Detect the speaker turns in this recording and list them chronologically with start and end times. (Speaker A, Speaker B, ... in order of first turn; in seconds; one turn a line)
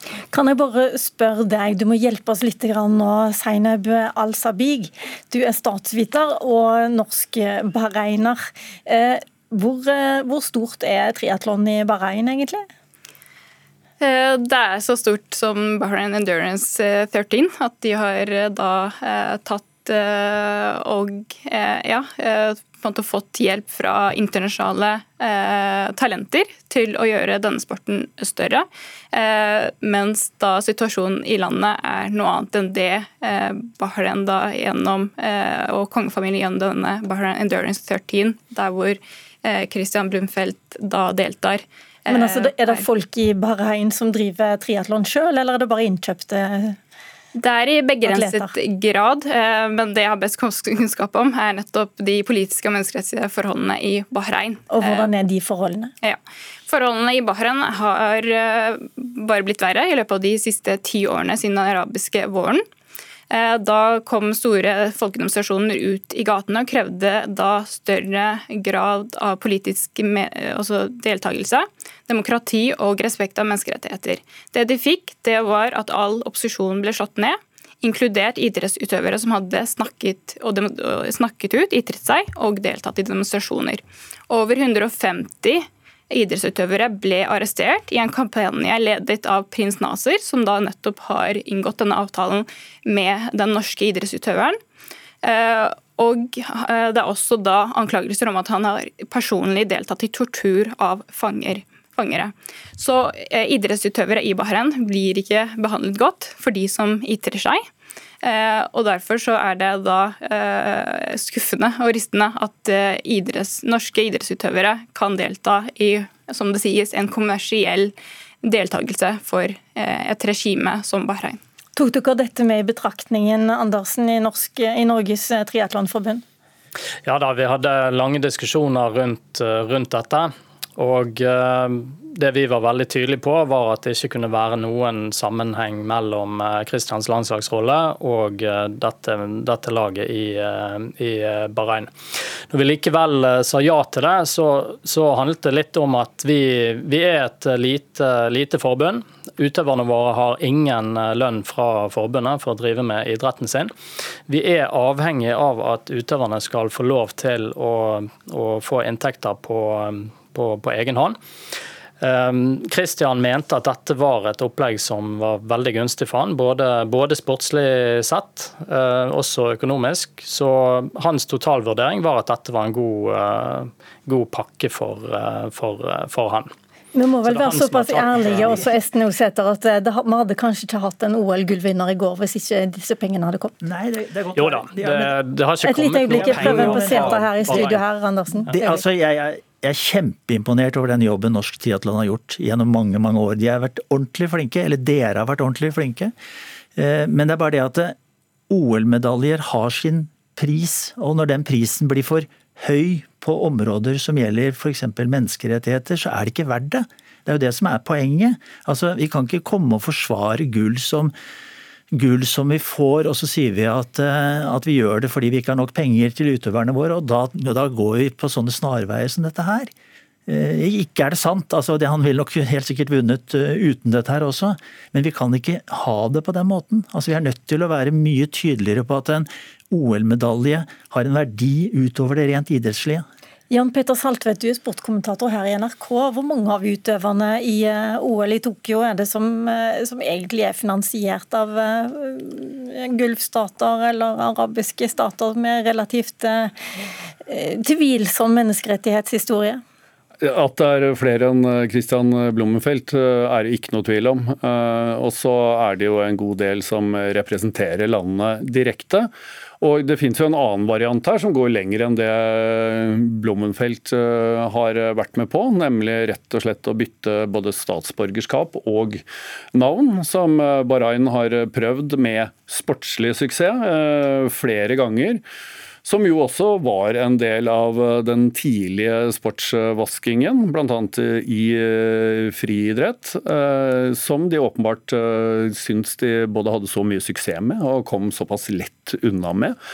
Speaker A: 0.3-12.7
Speaker B: 14.0-42.8
Speaker A: 42.1-46.8
Speaker B: 47.3-55.1
Speaker A: 48.0-48.5
Speaker A: 54.7-55.9
Speaker B: 56.0-62.6
Speaker B: 63.3-94.6
Speaker B: 95.2-107.6
Speaker B: 108.2-121.4
Speaker A: 121.8-126.2
Speaker C: 127.0-141.9
Speaker C: 142.5-153.7
Speaker C: 154.3-161.2
Speaker C: 162.0-176.5
Speaker A: 176.9-183.5
Speaker C: 177.2-178.7
Speaker D: 178.2-178.6
Speaker D: 183.6-185.1
Speaker C: 184.3-187.8
Speaker A: 185.6-188.8
Speaker D: 186.1-187.8
Speaker D: 188.5-196.1
Speaker D: 196.7-197.9
Speaker D: 198.5-211.1
Speaker D: 211.9-219.7
Speaker D: 220.3-233.1
Speaker A: 233.5-246.5
Speaker A: 247.2-249.6
Speaker E: 250.2-275.2
Speaker E: 275.8-289.6